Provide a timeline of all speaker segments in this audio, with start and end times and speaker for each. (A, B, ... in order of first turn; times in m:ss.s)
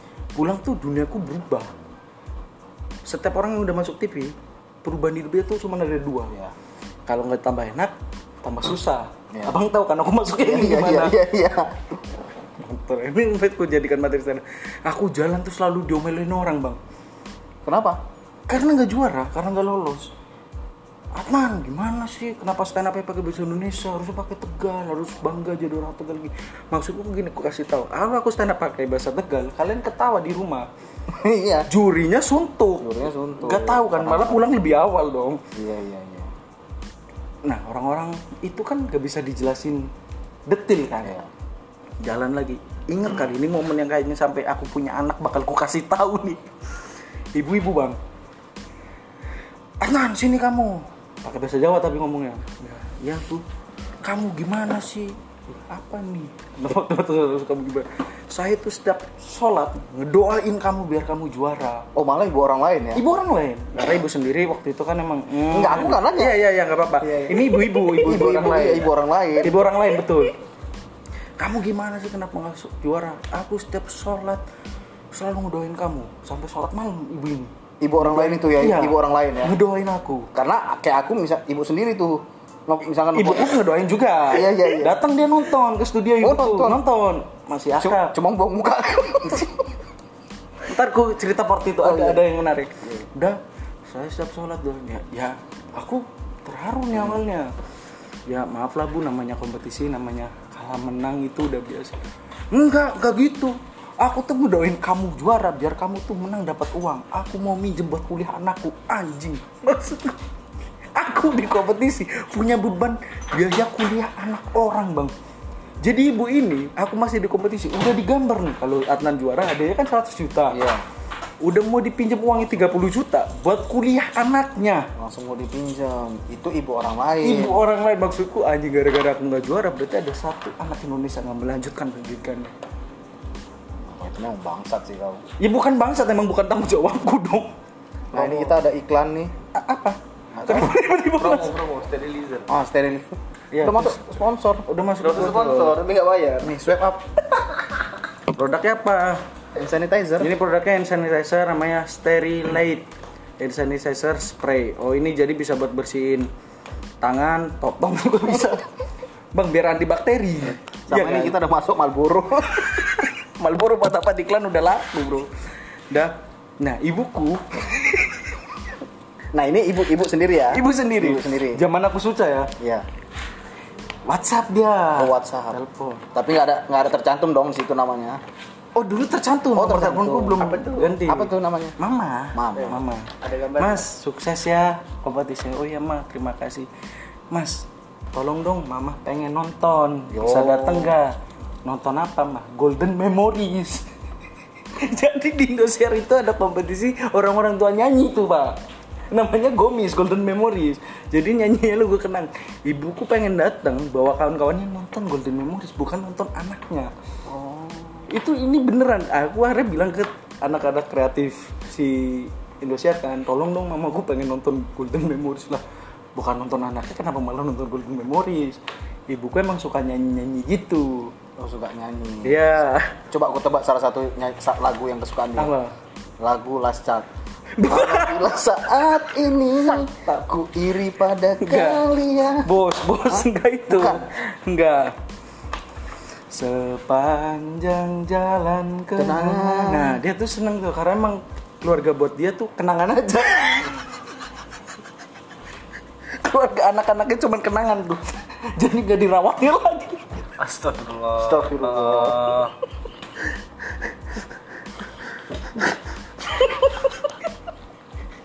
0:00.3-0:01.7 A
0:03.0-0:06.4 A
0:07.1-0:11.2 A
0:09.3-0:09.6 B
0:10.4-0:12.0 B
0:12.6-0:16.8 A
0:17.6-0:18.0 B
0:18.5-0:20.1 A
0:21.1-0:30.7 A
0:31.1-0:31.7 B
0:31.7-0:35.4 A
0:32.8-0:34.6 B
0:35.5-0:36.3 B
0:37.4-0:39.9 A
0:40.5-0:41.2 A
0:41.0-0:41.3 B
0:42.0-0:46.5 A
0:47.3-0:48.0 A
0:49.8-0:53.4 A
0:54.0-1:01.9 A
1:01.9-1:03.0 B
1:02.9-1:08.9 A
1:05.5-1:06.4 B
1:07.0-1:09.7 B
1:09.4-1:10.4 A
1:11.4-1:14.4 A
1:15.1-1:20.3 A
1:17.8-1:19.6 B
1:20.3-1:23.5 B
1:23.1-1:28.1 A
1:24.2-1:25.0 B
1:26.2-1:26.8 B
1:27.8-1:29.7 B
1:30.6-1:37.5 A
1:31.8-1:32.2 B
1:36.9-1:37.2 B
1:38.3-1:42.0 A
1:42.5-1:50.2 A
1:50.9-1:55.1 A
1:55.8-2:00.6 A
2:00.5-2:00.8 B
2:01.4-2:04.9 A
2:05.0-2:07.6 B
2:07.2-2:12.5 A
2:13.8-2:15.2 B
2:15.4-2:17.5 A
2:18.1-2:18.5 A
2:18.1-2:19.3 B
2:19.5-2:21.6 A
2:20.3-2:20.8 B
2:21.2-2:22.4 C
2:22.5-2:27.6 B
2:23.5-2:24.1 A
2:24.7-2:25.8 A
2:25.2-2:25.8 C
2:28.3-2:29.2 A
2:29.5-2:30.3 B
2:30.2-2:32.9 A
2:33.4-2:36.3 A
2:37.0-2:38.6 A
2:38.2-2:38.6 B
2:39.3-2:41.4 A
2:40.9-2:43.0 B
2:42.9-2:48.3 A
2:49.3-2:51.6 B
2:50.5-2:52.5 A
2:52.6-2:52.9 B
2:54.0-2:56.0 A
2:55.0-2:55.6 B
2:56.1-2:58.2 B
2:58.7-3:06.7 A
2:59.5-3:01.8 B
3:02.3-3:02.9 B
3:03.2-3:03.8 C
3:07.3-3:13.9 A
3:10.1-3:10.9 B
3:14.7-3:18.6 A
3:19.1-3:26.9 A
3:27.2-3:28.1 B
3:28.1-3:35.6 A
3:36.1-3:41.1 A
3:41.4-3:42.6 B
3:42.2-3:43.0 A
3:43.1-3:45.5 B
3:45.4-3:45.7 A
3:46.2-3:47.1 B
3:47.5-3:48.4 A
3:47.6-3:52.5 B
3:49.4-3:50.6 A
3:51.4-3:51.8 A
3:52.4-3:55.0 A
3:53.0-3:54.0 B
3:56.3-4:03.8 A
3:59.0-4:00.0 B
4:06.1-4:08.0 A
4:08.6-4:10.0 A
4:10.4-4:12.5 C
4:11.1-4:12.4 B
4:16.4-4:17.0 A